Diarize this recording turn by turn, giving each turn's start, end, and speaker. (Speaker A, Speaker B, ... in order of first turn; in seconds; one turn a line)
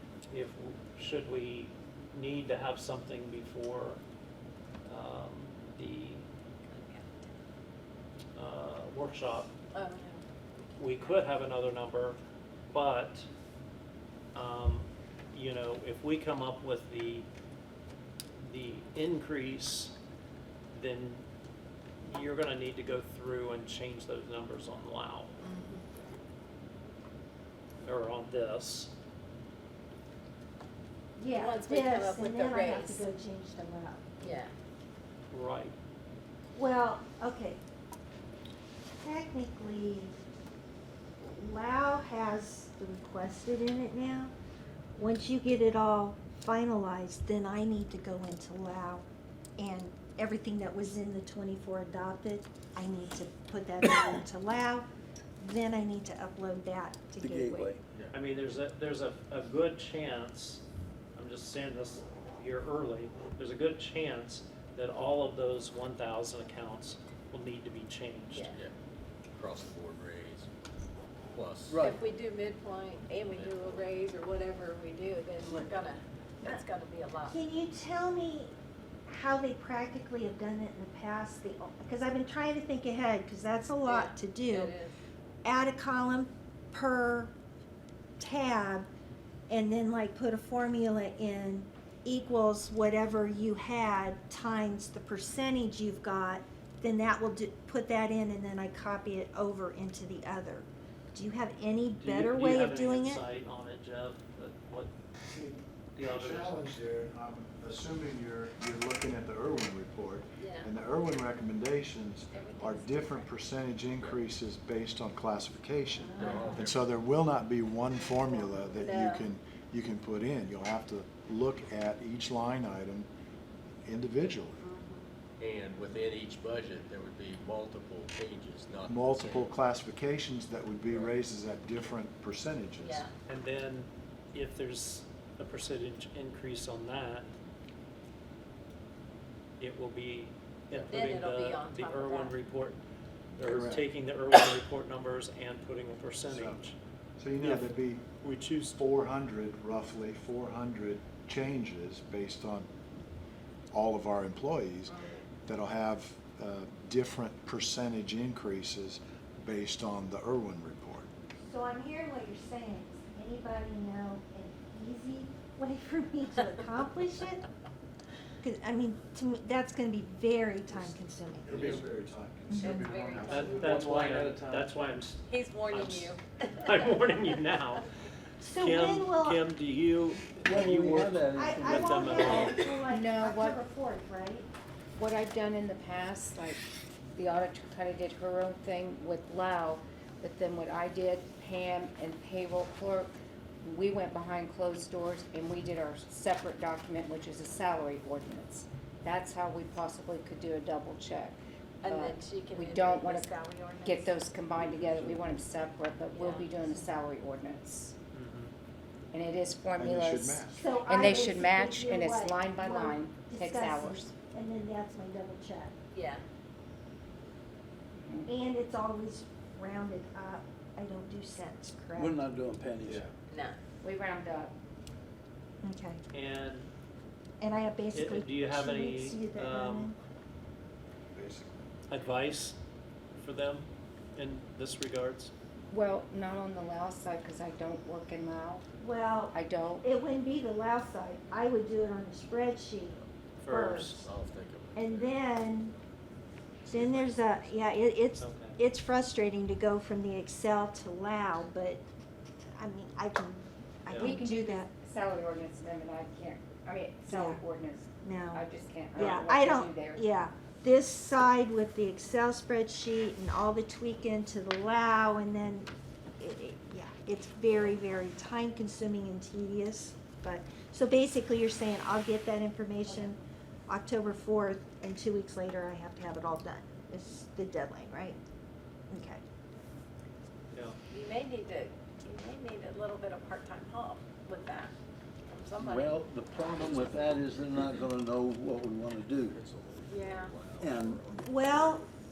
Speaker A: 0.3-4.0
Speaker A: 4.8-6.2
Speaker B: 6.7-7.1
Speaker A: 8.3-9.5
Speaker B: 9.7-10.2
Speaker B: 10.8-11.2
Speaker A: 10.8-12.2
Speaker A: 12.7-13.3
Speaker A: 14.3-17.3
Speaker A: 18.4-19.9
Speaker A: 20.7-21.2
Speaker A: 22.0-25.4
Speaker B: 25.4-25.9
Speaker A: 27.8-28.9
Speaker C: 31.2-34.1
Speaker B: 31.3-33.1
Speaker B: 34.2-34.5
Speaker A: 35.3-35.8
Speaker C: 36.5-37.6
Speaker C: 38.9-40.2
Speaker C: 41.2-44.3
Speaker C: 45.0-49.0
Speaker C: 49.6-54.9
Speaker C: 55.4-57.7
Speaker D: 57.2-57.8
Speaker A: 58.1-60.6
Speaker A: 61.1-68.5
Speaker B: 68.3-68.6
Speaker E: 69.3-70.5
Speaker E: 71.3-71.8
Speaker D: 71.7-72.0
Speaker B: 71.8-77.4
Speaker E: 73.1-73.9
Speaker C: 77.2-78.5
Speaker C: 79.1-84.8
Speaker B: 83.9-84.9
Speaker C: 85.4-87.3
Speaker C: 88.2-88.9
Speaker C: 89.5-103.2
Speaker A: 102.0-104.9
Speaker F: 105.3-123.1
Speaker A: 106.0-106.7
Speaker B: 110.4-110.7
Speaker B: 112.3-113.3
Speaker B: 116.0-116.6
Speaker E: 116.2-116.8
Speaker B: 118.8-119.3
Speaker F: 123.9-124.6
Speaker B: 124.6-125.1
Speaker E: 125.4-129.5
Speaker F: 128.8-133.1
Speaker E: 130.9-131.2
Speaker B: 132.8-133.1
Speaker A: 133.3-137.3
Speaker A: 139.6-142.8
Speaker B: 140.9-142.4
Speaker A: 143.4-146.8
Speaker F: 143.4-143.9
Speaker F: 146.3-146.6
Speaker F: 147.2-148.0
Speaker A: 147.4-148.8
Speaker F: 148.8-152.7
Speaker F: 153.7-154.9
Speaker B: 154.9-155.2
Speaker F: 155.5-161.1
Speaker C: 161.4-167.4
Speaker C: 168.4-171.7
Speaker F: 170.7-173.9
Speaker E: 171.5-171.8
Speaker B: 172.5-173.8
Speaker A: 173.3-177.9
Speaker D: 173.8-174.6
Speaker B: 175.3-176.2
Speaker C: 178.4-179.4
Speaker A: 178.5-182.6
Speaker D: 180.4-182.2
Speaker C: 181.3-184.5
Speaker G: 182.9-183.6
Speaker G: 184.9-186.6
Speaker G: 187.2-207.9
Speaker B: 201.8-204.2
Speaker F: 204.6-205.2
Speaker B: 206.1-206.7
Speaker A: 208.1-208.5
Speaker G: 209.1-214.1
Speaker F: 209.8-210.8
Speaker C: 210.6-215.7
Speaker B: 215.9-216.2
Speaker G: 218.0-218.3
Speaker C: 218.3-222.2
Speaker D: 222.0-223.0
Speaker F: 222.8-223.1
Speaker B: 223.3-223.6
Speaker G: 223.8-224.5
Speaker C: 225.6-226.0
Speaker A: 226.1-226.7
Speaker C: 227.4-230.0
Speaker A: 227.9-229.9
Speaker F: 231.1-231.7
Speaker A: 231.9-232.6
Speaker A: 233.2-235.3
Speaker G: 235.7-238.7
Speaker C: 238.8-244.1
Speaker G: 239.3-239.9
Speaker A: 243.4-244.0
Speaker E: 243.9-245.2
Speaker C: 244.8-245.8
Speaker E: 246.7-247.5
Speaker C: 246.7-251.8
Speaker A: 248.2-248.6
Speaker C: 252.6-254.7
Speaker A: 253.9-254.2
Speaker G: 254.0-260.1
Speaker C: 257.1-257.4
Speaker C: 258.0-278.2
Speaker G: 272.9-273.1
Speaker C: 278.9-279.2
Speaker B: 280.9-284.7
Speaker B: 285.3-286.0
Speaker D: 285.6-289.4
Speaker E: 286.7-287.9
Speaker E: 289.3-291.8
Speaker B: 289.9-290.3
Speaker D: 290.6-291.0
Speaker C: 291.2-291.9